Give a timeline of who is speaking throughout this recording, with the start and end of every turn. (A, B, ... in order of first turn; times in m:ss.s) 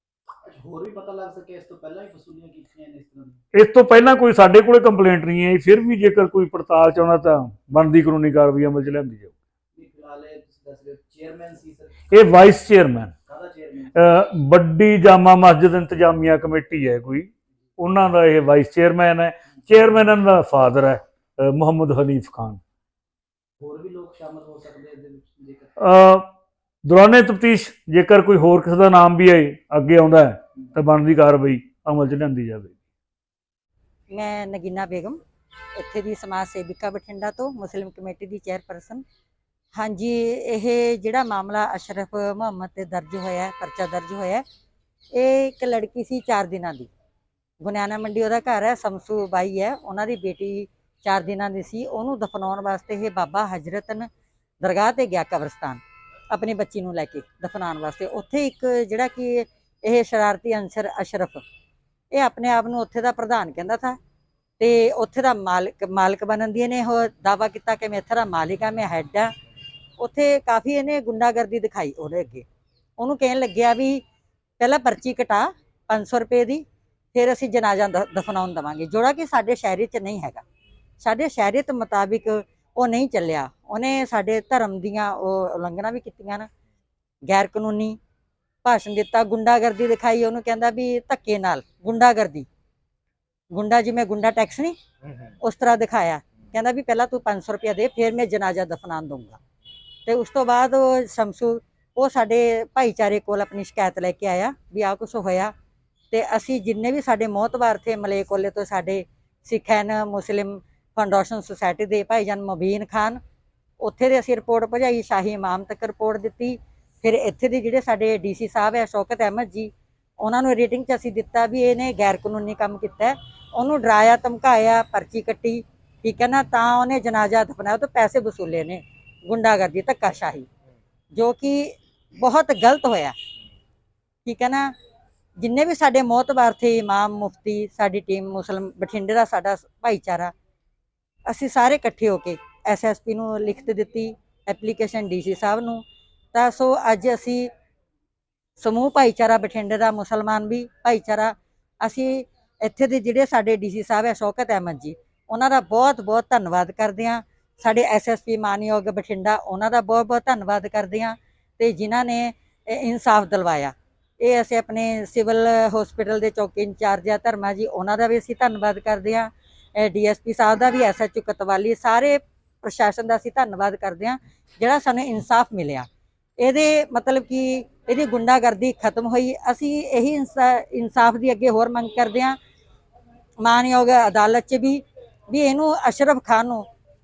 0:00.4-0:03.4 A
0:03.5-0:09.3 B
0:09.7-0:12.2 A
0:12.1-0:13.1 B
0:13.2-0:14.0 A
0:13.9-0:22.6 B
0:23.6-0:25.8 A
0:25.8-0:26.3 B
0:26.8-0:32.8 B
0:34.1-0:35.2 C
0:35.8-0:39.0 C
0:39.7-0:44.4 C
0:45.1-0:46.9 C
0:47.6-0:54.1 C
0:54.6-1:01.4 C
1:02.1-1:04.0 C
1:04.6-1:09.3 C
1:10.0-1:12.4 C
1:13.0-1:14.0 C
1:14.6-1:16.6 C
1:17.1-1:20.4 C
1:21.0-1:26.5 C
1:27.3-1:28.0 C
1:28.6-1:32.4 C
1:33.5-1:34.7 C
1:35.4-1:39.4 C
1:40.1-1:45.5 C
1:46.1-1:53.2 C
1:53.8-1:59.7 C
2:00.2-2:10.5 C
2:11.1-2:13.1 C
2:14.2-2:14.7 C
2:15.4-2:20.3 C
2:21.3-2:25.8 C
2:26.3-2:27.5 C
2:28.6-2:55.8 C
2:56.4-3:02.3 C
3:03.4-3:04.8 C
3:05.3-3:06.6 C